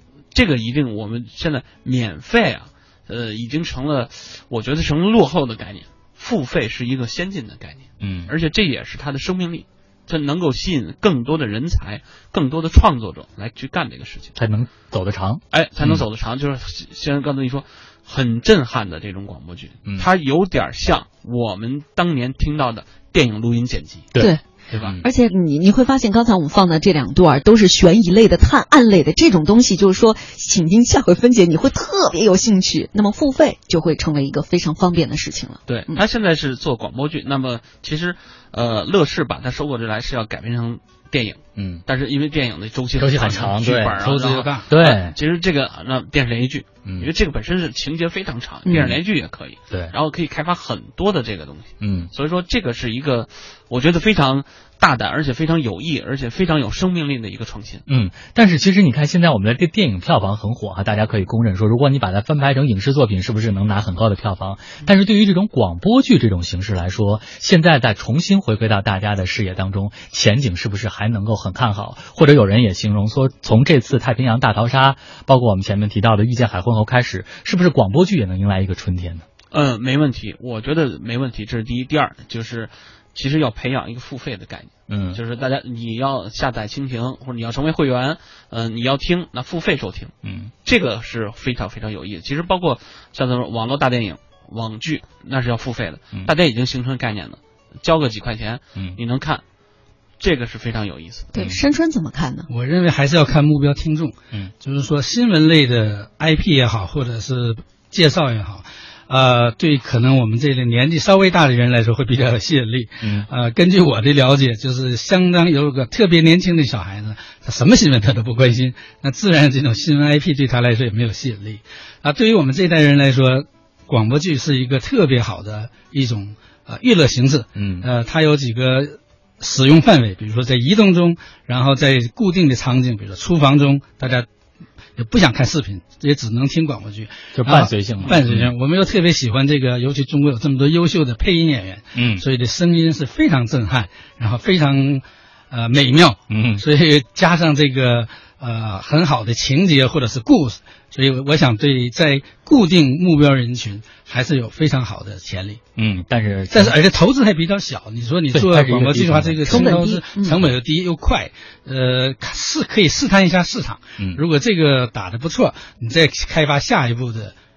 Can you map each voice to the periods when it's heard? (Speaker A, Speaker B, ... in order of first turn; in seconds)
Speaker A: 0.3-14.3, 15.5-24.1, 24.7-25.0, 35.6-57.8, 79.5-90.1, 90.6-99.4, 100.2-101.4
Speaker B: 8.0-8.3, 14.3-16.0, 24.1-25.0, 41.5-41.8, 43.0-44.0, 44.7-45.1, 48.7-49.0, 51.8-52.1, 57.9-79.2, 84.9-85.2, 90.2-90.5, 113.0-113.3, 127.5-127.9, 137.3-138.5, 141.9-142.2, 146.3-146.6, 155.8-156.8, 158.3-159.7
Speaker C: 25.0-36.0, 48.6-48.9, 101.3-102.5, 159.4-160.4
Speaker D: 44.0-44.7, 102.5-134.3, 135.0-155.6, 156.5-167.3